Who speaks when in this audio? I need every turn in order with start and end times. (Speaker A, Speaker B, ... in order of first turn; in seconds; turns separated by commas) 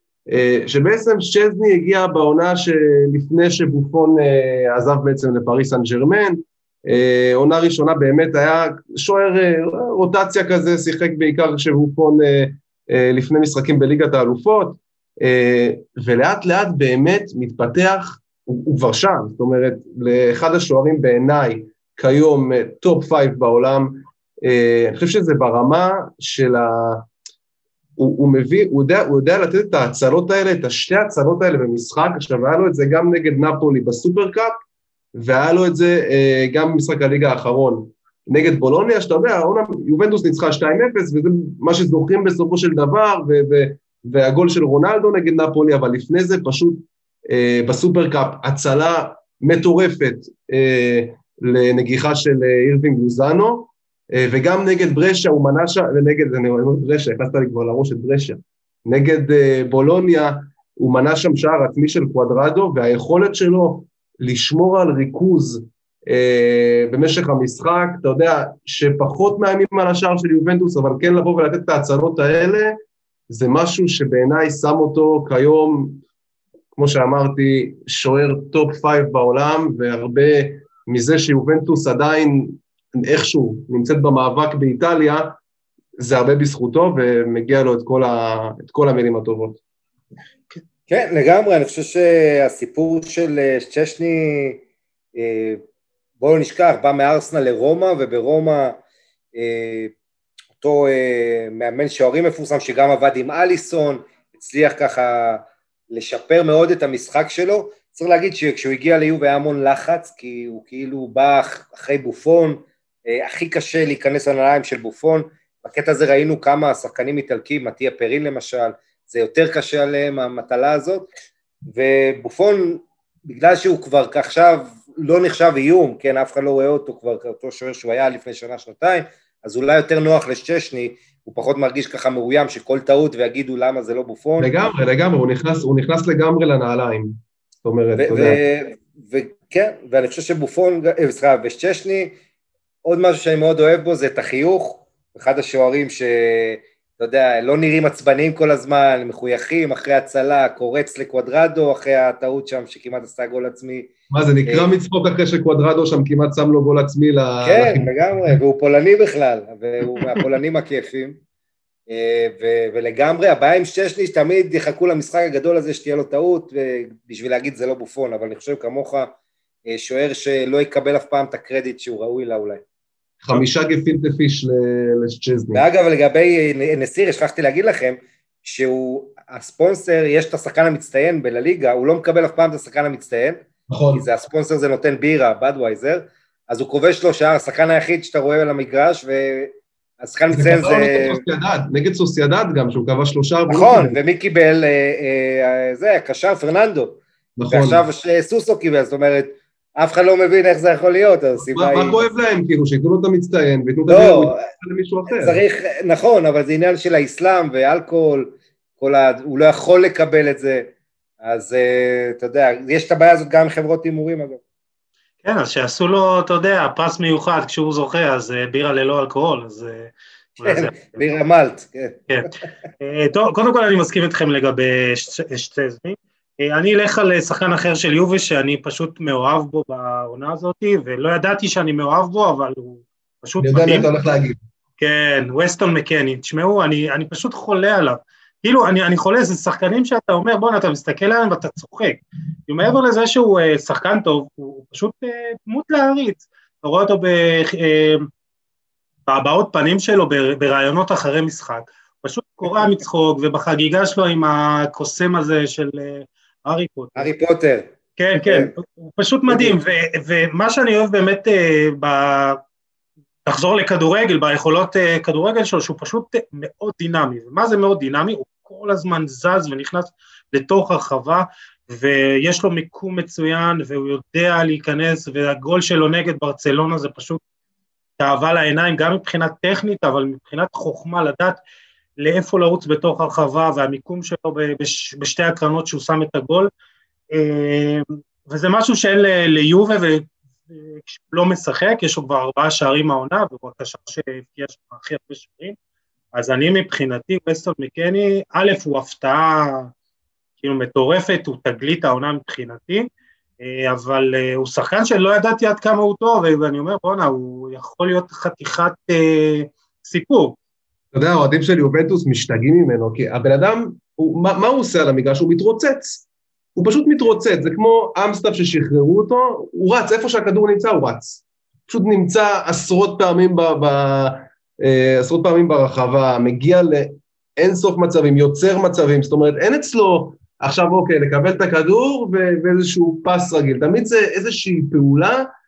Speaker A: 0.3-27.1, Speaker A: 28.0-34.6, Speaker A: 35.1-72.8, Speaker A: 73.3-76.0, Speaker A: 76.8-85.3, Speaker A: 86.0-89.6, Speaker B: 90.9-94.6, Speaker B: 95.2-95.6, Speaker B: 96.2-98.8, Speaker B: 99.3-99.9, Speaker B: 100.6-121.1, Speaker B: 121.7-134.5, Speaker A: 134.4-138.4, Speaker B: 138.0-142.1, Speaker B: 142.8-153.9, Speaker A: 154.1-157.9, Speaker B: 154.5-154.7, Speaker B: 157.4-161.2, Speaker B: 161.9-169.1, Speaker B: 169.7-172.6, Speaker A: 173.2-175.6, Speaker B: 175.5-183.4, Speaker A: 183.7-184.0, Speaker B: 183.9-191.2, Speaker A: 190.3-194.0, Speaker B: 193.5-202.1, Speaker A: 197.4-197.8, Speaker A: 201.4-205.4, Speaker B: 203.9-204.4, Speaker B: 205.1-214.4, Speaker C: 215.2-221.0, Speaker B: 220.4-222.0, Speaker C: 222.1-233.9, Speaker A: 233.4-234.4, Speaker C: 234.8-248.1, Speaker C: 249.1-257.1, Speaker B: 256.9-258.5, Speaker C: 258.0-262.4, Speaker B: 259.3-259.6, Speaker C: 263.2-277.2, Speaker C: 278.0-281.4, Speaker C: 282.0-286.5, Speaker C: 287.1-295.6, Speaker C: 296.1-299.7, Speaker C: 300.4-302.9, Speaker C: 303.4-310.4, Speaker A: 310.9-335.3